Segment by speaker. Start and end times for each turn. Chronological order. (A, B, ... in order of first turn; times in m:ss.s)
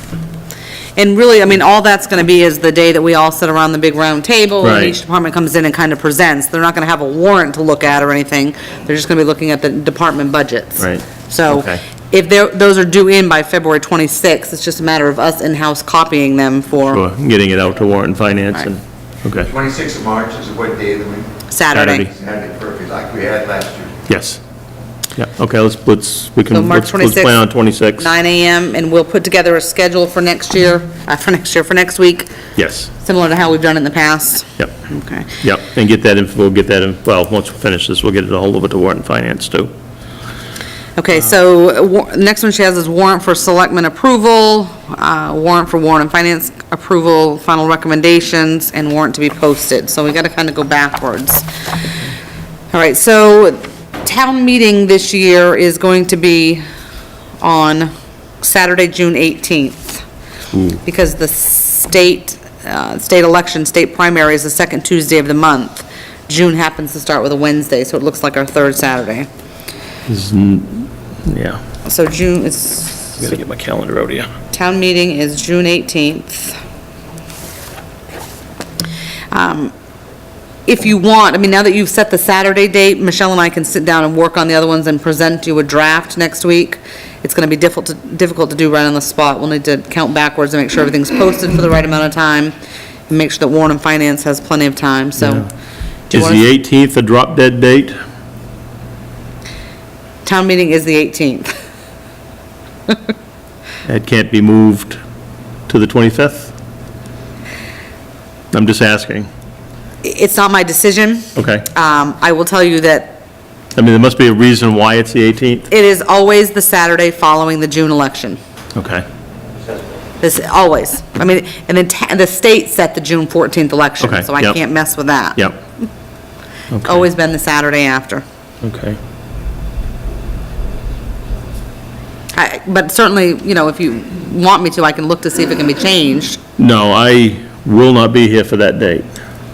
0:01.0-0:17.0 A
0:04.6-0:04.9 B
0:10.8-0:11.8 B
0:16.9-0:19.5 B
0:19.5-0:21.3 C
0:21.5-0:22.1 A
0:21.7-0:22.1 B
0:22.1-0:23.9 C
0:24.1-0:24.4 B
0:25.2-0:28.0 B
0:26.5-0:27.4 A
0:28.0-0:32.3 A
0:32.6-0:32.9 B
0:33.0-0:35.3 A
0:35.4-0:39.7 B
0:41.0-0:51.4 A
0:52.7-0:56.6 A
0:57.4-1:00.0 A
1:00.8-1:09.3 A
1:10.1-1:11.6 B
1:11.8-1:13.2 A
1:13.2-1:14.3 B
1:14.5-1:16.6 A
1:19.3-1:19.7 A
1:20.7-1:32.5 A
1:33.1-1:35.5 A
1:36.1-1:36.4 A
1:36.1-1:38.0 B
1:40.2-1:41.5 A
1:43.8-1:45.0 B
1:45.7-1:46.5 B
1:48.5-1:49.3 B
1:50.0-1:53.2 A
1:51.3-1:51.7 B
1:53.7-1:55.7 B
1:55.7-1:58.4 A
1:58.7-1:59.0 B
2:00.2-2:05.4 A
2:04.0-2:04.6 B
2:06.7-2:07.0 B
2:06.8-2:08.2 A
2:08.6-2:09.0 B
2:12.3-2:16.4 A
2:16.6-2:19.0 B